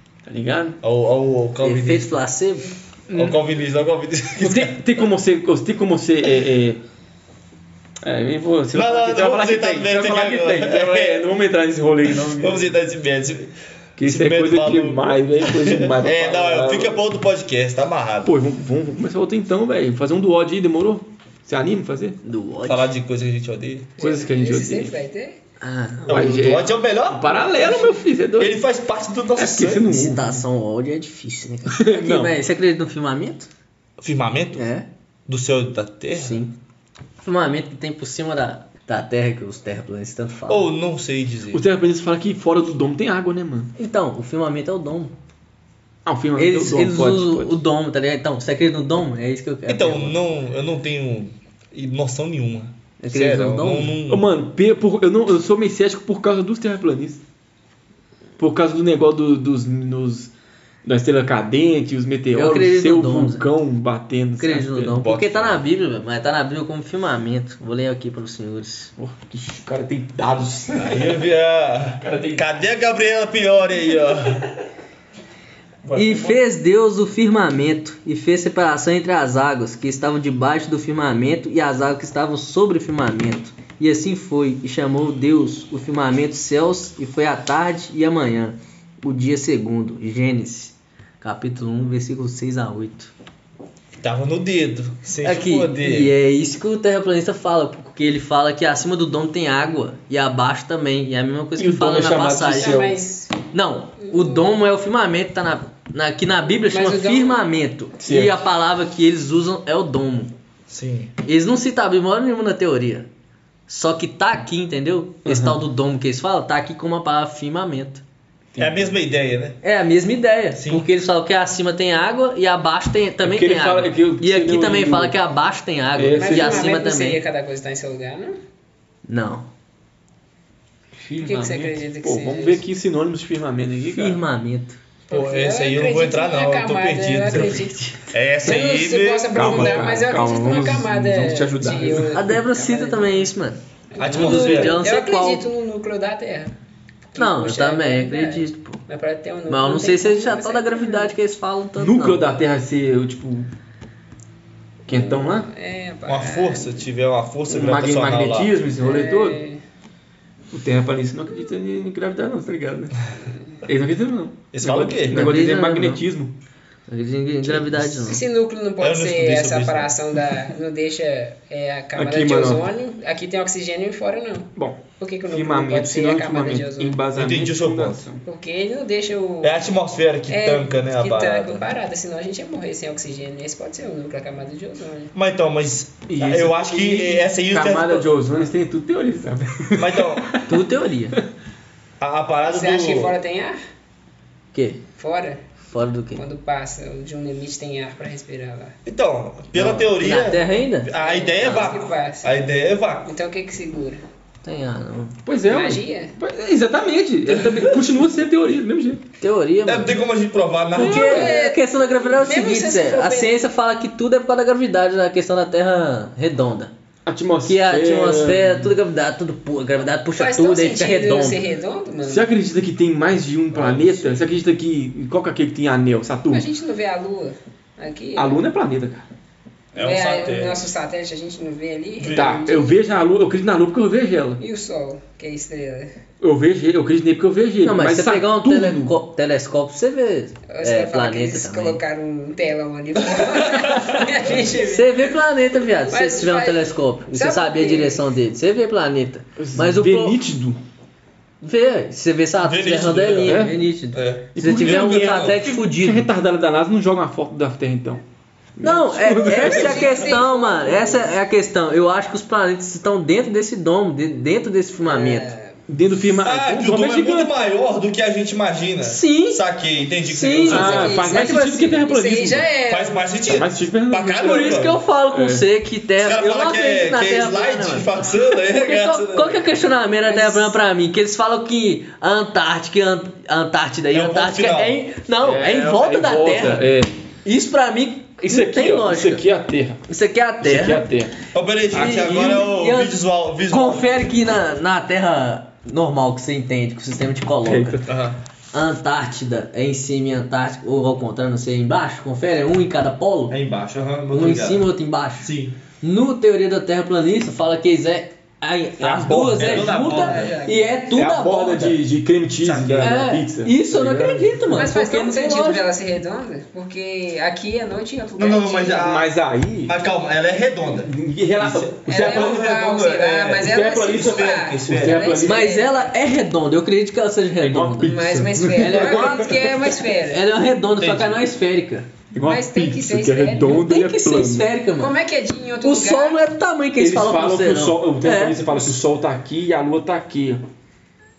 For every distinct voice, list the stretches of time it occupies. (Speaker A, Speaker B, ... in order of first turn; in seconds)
Speaker A: 0.2-0.8, 3.1-3.4, 4.4-6.8, 8.0-12.7, 14.0-17.0, 18.2-22.2, 24.0-24.9, 26.1-28.6, 29.4-30.4, 31.7-32.3, 41.5-43.7, 46.1-47.6, 54.1-57.2, 58.4-60.3, 60.9-65.2, 69.0-71.2, 72.0-72.5, 101.6-103.0, 108.0-108.4, 115.3-115.6, 118.5-119.0, 123.2-125.2, 126.0-126.8, 131.0-134.2, 139.3-142.1, 151.8-153.5, 154.9-155.5, 157.5-159.4, 160.5-163.0, 163.6-166.3, 171.9-172.7, 174.6-178.2, 186.1-190.5, 205.2-209.0, 210.7-211.3, 217.1-218.7, 222.1-226.5, 228.2-229.1, 232.1-234.4, 236.2-238.9, 249.4-250.6, 253.2-253.6, 254.3-258.0, 258.6-259.9, 265.7-267.4, 270.5-272.5, 273.3-275.4, 285.2-286.9, 288.2-289.8, 290.4-291.2, 291.7-292.4, 297.4-297.9, 310.9-314.7, 318.8-319.7, 320.9-325.5, 327.4-329.3, 332.1-334.5, 336.8-340.4
Speaker B: 0.8-2.2, 3.1-5.0, 8.7-11.3, 12.1-18.4, 22.6-23.9, 26.1-29.9, 34.0-34.6, 35.3-36.5, 40.5-41.6, 49.7-54.2, 65.0-65.6, 70.7-74.5, 75.8-76.3, 94.0-96.1, 110.7-111.1, 118.6-119.6, 120.5-120.9, 135.1-139.9, 143.9-144.8, 156.1-158.5, 164.5-165.3, 167.4-168.2, 168.8-169.9, 177.2-178.1, 179.4-181.7, 185.1-188.1, 189.8-190.3, 192.0-193.2, 198.8-203.1, 207.3-207.7, 209.7-211.2, 223.5-223.9, 229.7-230.6, 232.0-232.3, 252.4-255.4, 266.1-271.1, 272.7-274.8, 276.0-279.5, 283.9-284.8, 291.3-294.0, 297.9-298.2, 303.3-305.6, 308.8-310.4, 312.4-313.0, 318.2-319.1, 319.6-325.2, 330.8-331.3
Speaker C: 1.6-2.7, 22.2-22.9, 25.6-26.4, 29.9-33.5, 34.5-34.9, 36.2-36.5, 37.2-40.7, 43.8-45.1, 46.4-50.2, 53.0-54.0, 62.4-63.5, 64.4-68.9, 76.0-93.1, 95.2-102.8, 103.5-110.3, 111.2-113.1, 113.7-118.0, 119.6-127.2, 129.1-129.5, 133.8-134.8, 137.4-137.9, 142.1-145.4, 147.2-148.8, 149.5-152.4, 165.1-166.0, 166.9-168.2, 190.5-191.2, 194.5-194.8, 195.7-196.2, 199.6-201.7, 204.4-205.2, 209.2-209.9, 210.8-216.7, 217.4-221.4, 237.6-241.8, 244.6-250.2, 251.4-256.1, 258.6-265.3, 268.8-269.4, 270.0-270.9, 274.2-286.7, 287.2-289.2, 289.9-290.9, 291.7-297.8, 298.5-303.4, 304.1-305.3, 305.8-311.8, 312.8-315.6, 325.2-331.9, 333.5-335.0, 335.6-338.5
Speaker D: 24.0-25.4, 102.5-103.4, 104.1-104.5, 106.7-107.4, 126.1-128.4, 131.2-132.6, 135.1-137.8, 138.4-143.3, 143.9-146.5, 147.1-151.1, 154.9-156.9, 158.8-159.6, 168.1-177.0, 178.2-179.6, 180.3-185.1, 192.5-193.6, 195.0-195.4, 196.2-198.7, 201.0-202.3, 203.1-204.0, 205.5-206.1, 211.0-213.4, 220.2-222.3, 226.3-228.4, 229.8-232.7, 234.4-235.9, 240.5-245.2, 245.9-248.0, 259.2-261.1, 264.9-265.5, 270.4-273.1, 280.1-280.6, 309.4-310.8, 314.6-318.9, 321.9-325.9, 327.9-330.2, 332.2-333.6, 334.8-336.2